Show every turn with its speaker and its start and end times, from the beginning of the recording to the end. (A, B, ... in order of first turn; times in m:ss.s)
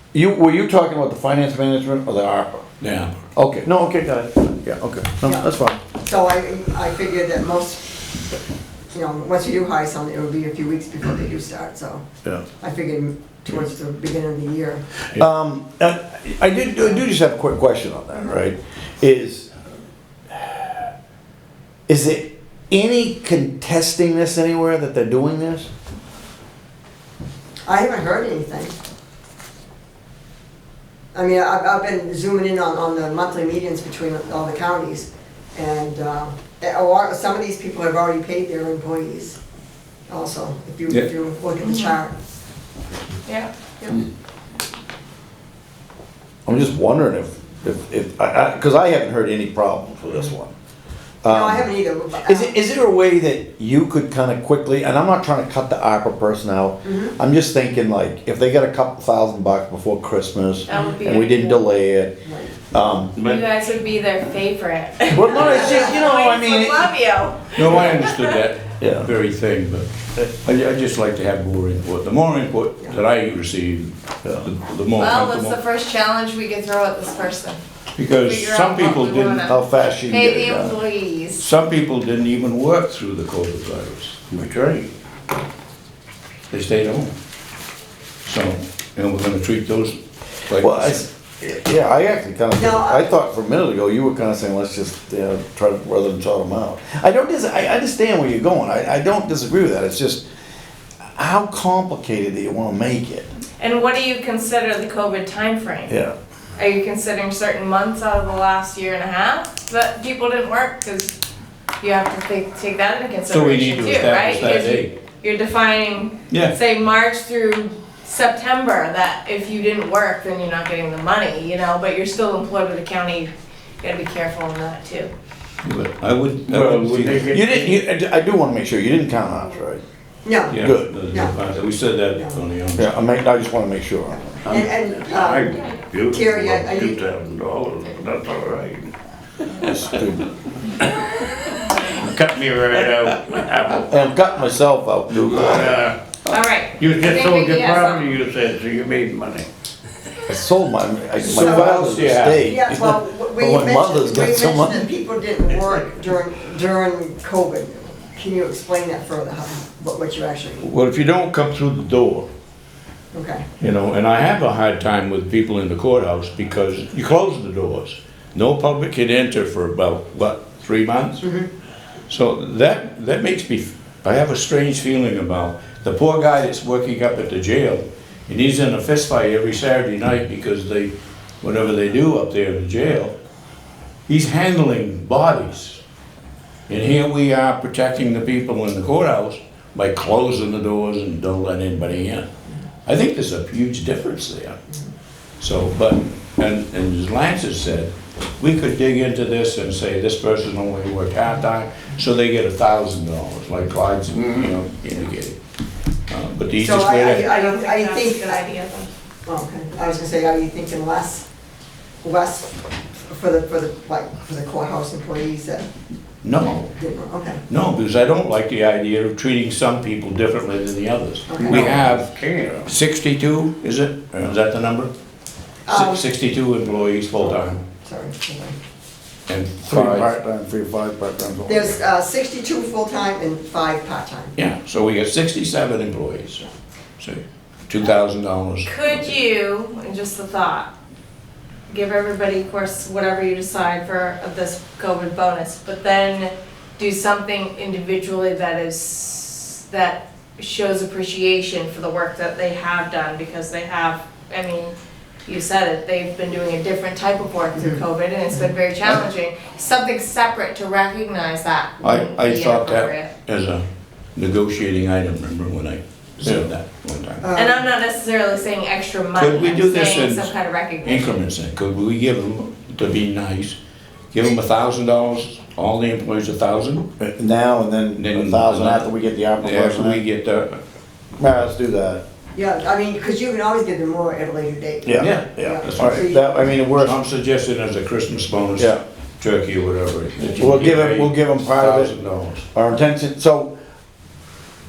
0:00.1-0:02.6 A
0:02.8-0:03.1 B
0:03.4-0:05.8 A
0:05.2-0:08.0 C
0:08.9-0:12.0 C
0:12.6-0:14.8 C
0:15.1-0:19.5 A
0:20.3-0:20.9 A
0:21.9-0:25.7 A
0:27.6-0:28.8 C
0:31.1-0:39.4 C
0:40.1-0:42.1 C
0:41.7-0:42.0 D
0:43.2-0:43.5 D
0:46.4-0:50.5 A
0:51.2-0:51.7 A
0:51.3-0:52.5 C
0:52.2-1:03.1 A
0:56.8-0:57.1 C
1:00.7-1:01.6 D
1:02.2-1:02.6 C
1:03.2-1:08.4 D
1:05.1-1:06.9 A
1:05.4-1:06.0 C
1:07.5-1:09.9 B
1:08.8-1:09.1 A
1:10.4-1:15.6 B
1:15.0-1:21.5 D
1:18.0-1:19.5 B
1:19.4-1:20.8 A
1:21.4-1:24.2 B
1:24.3-1:24.9 E
1:26.5-1:27.1 B
1:28.2-1:30.0 B
1:30.5-1:31.0 B
1:30.6-1:40.2 A
1:32.6-1:33.0 C
1:41.1-1:43.3 A
1:43.6-1:45.9 D
1:45.9-1:46.2 A
1:46.6-1:51.2 D
1:51.8-2:05.1 D
1:53.3-1:54.9 B
1:56.3-1:56.6 B
2:05.6-2:07.5 B
2:06.5-2:07.8 E
2:07.2-2:09.8 A
2:10.2-2:10.6 C
2:10.5-2:10.9 A
2:10.5-2:13.0 B
2:11.1-2:11.3 C
2:12.1-2:12.4 C
2:12.8-2:14.2 A
2:14.1-2:17.0 C
2:14.4-2:18.9 E
2:19.6-2:20.1 E
2:19.8-2:20.2 A
2:21.8-2:23.9 E
2:23.8-2:25.8 A
2:25.3-2:25.9 E
2:26.3-2:28.1 D
2:26.8-2:29.5 E
2:30.3-2:34.8 A
2:31.2-2:40.7 C
2:31.4-2:32.5 B
2:40.6-2:42.3 B
2:43.1-2:43.4 C
2:43.6-2:51.3 B
2:51.2-2:51.5 C
2:52.1-3:03.1 B
3:04.1-3:05.8 B
3:06.7-3:12.3 B
3:12.8-3:14.6 B
3:15.4-3:25.4 B
3:26.1-3:27.3 B
3:26.6-3:28.4 C
3:27.1-3:28.9 D
3:29.2-3:31.2 C
3:32.0-3:35.7 C
3:36.2-3:36.8 B
3:36.8-3:37.4 C
3:37.5-3:42.1 B
3:41.3-3:41.9 C
3:41.4-3:42.7 E
3:42.7-3:44.9 B
3:45.7-3:46.0 C
3:45.7-3:47.6 B
3:47.8-3:48.6 C
3:49.3-3:50.1 B
3:49.6-3:51.8 A
3:51.5-3:54.3 C
3:54.4-3:56.4 B
3:57.0-3:59.2 B
3:58.6-4:00.7 D
4:01.7-4:23.1 D
4:17.6-4:17.8 C
4:21.8-4:27.2 B
4:27.2-4:27.6 C
4:27.3-4:31.2 D
4:29.2-4:30.3 B
4:30.8-4:33.6 B
4:34.1-4:36.9 B
4:37.0-4:40.0 A
4:38.0-4:40.6 B
4:41.2-4:42.0 A
4:42.3-4:46.2 C
4:44.8-4:47.0 A
4:45.0-4:46.1 B
4:46.6-4:52.5 B
4:48.6-4:48.8 A
4:50.3-4:51.9 A
4:52.5-4:53.6 A